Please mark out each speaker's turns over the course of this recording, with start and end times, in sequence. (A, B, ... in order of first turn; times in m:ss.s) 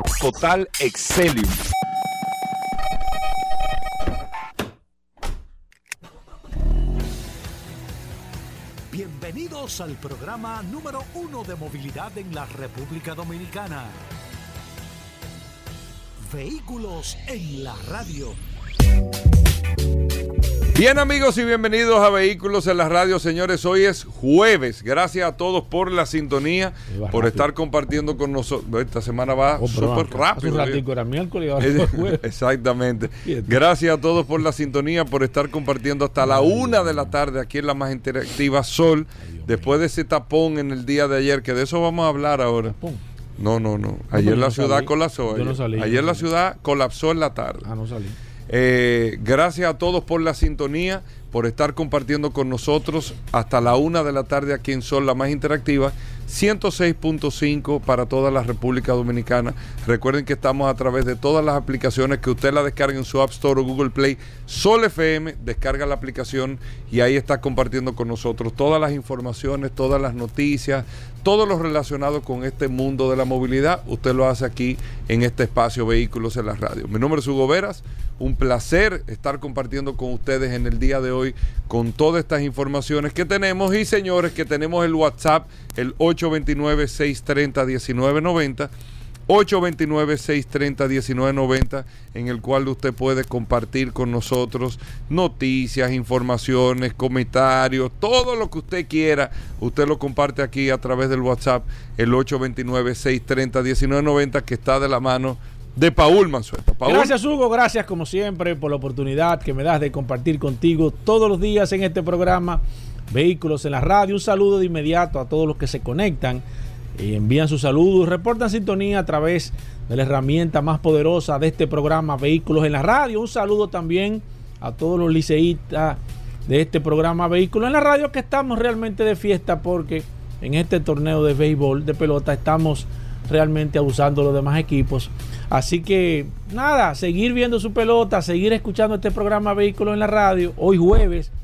0:00.2-0:01.6 A
0:08.9-0:14.0 B
0:16.3-0:18.4 B
0:20.8-0:30.8 A
0:26.9-0:27.5 C
0:29.6-0:32.2 C
0:31.6-0:42.8 A
0:33.2-0:33.6 C
0:36.2-0:37.2 C
0:39.3-0:39.8 C
0:42.7-0:43.0 C
0:43.4-0:47.7 A
0:44.1-0:46.3 C
0:47.6-0:48.2 C
0:48.5-1:28.7 A
1:29.3-1:47.2 A
1:46.8-1:56.4 C
1:57.0-2:21.3 C